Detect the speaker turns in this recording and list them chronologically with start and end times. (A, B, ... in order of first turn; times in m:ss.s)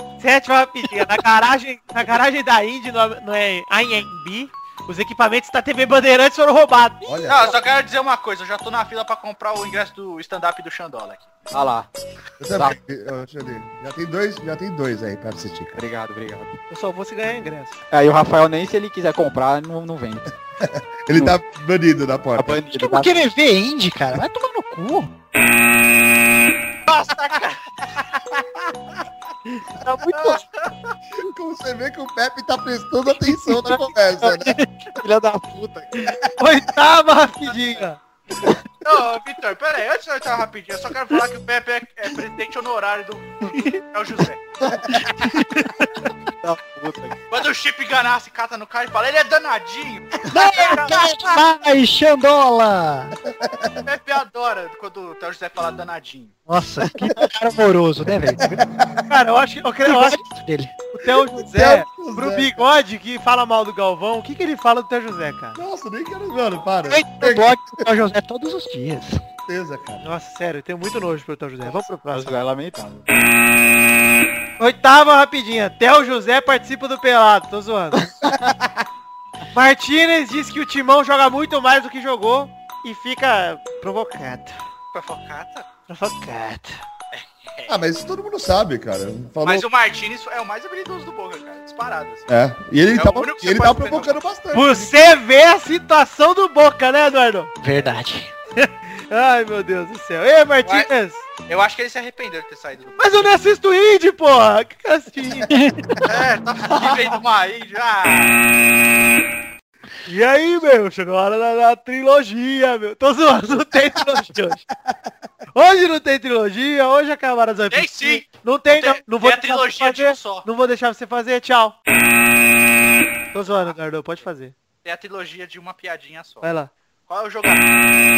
0:00.2-0:07.0 A
0:07.1-0:07.5 B
0:07.3-0:11.3 C
0:11.5-0:11.9 D
0:12.4-0:15.8 B
0:15.8-0:16.6 D
0:16.7-0:17.8 A
0:17.9-0:20.3 D
0:20.6-0:22.6 B
0:22.4-0:23.2 D
0:22.8-0:25.1 E
0:26.9-0:27.6 C
0:30.2-0:30.7 C
0:31.2-0:34.6 B
0:35.0-0:36.1 D
0:36.4-0:38.0 A
0:38.8-0:44.4 C
0:45.0-0:45.4 E
0:46.4-0:47.2 D
0:47.3-0:51.2 C
0:50.3-0:53.2 E
0:53.3-0:53.8 B
0:53.8-0:56.4 C
0:56.5-0:58.6 E
0:58.4-0:59.0 B
0:59.1-1:00.2 A
0:59.9-1:00.8 E
1:01.0-1:05.6 A
1:01.4-1:02.6 B
1:05.6-1:07.7 B
1:06.9-1:09.2 E
1:09.5-1:10.0 B
1:10.0-1:12.4 A
1:12.1-1:13.1 D
1:14.6-1:18.0 A
1:18.2-1:18.8 B
1:19.6-1:24.5 A
1:24.9-1:25.7 C
1:25.9-1:26.7 A
1:27.1-1:27.7 C
1:27.7-1:29.7 B
1:29.4-1:32.3 C
1:32.3-1:35.1 B
1:32.9-1:34.2 C
1:34.5-1:37.5 A
1:37.6-1:38.3 E
1:38.6-1:41.2 A
1:40.6-1:40.9 C
1:41.5-1:43.2 C
1:43.0-1:45.5 A
1:45.5-1:45.8 E
1:46.0-1:48.4 C
1:50.1-1:54.6 A
1:55.6-2:01.8 A
1:57.7-2:00.5 C
2:03.3-2:04.5 A
2:04.8-2:06.5 C
2:06.4-2:06.7 A
2:07.1-2:07.8 C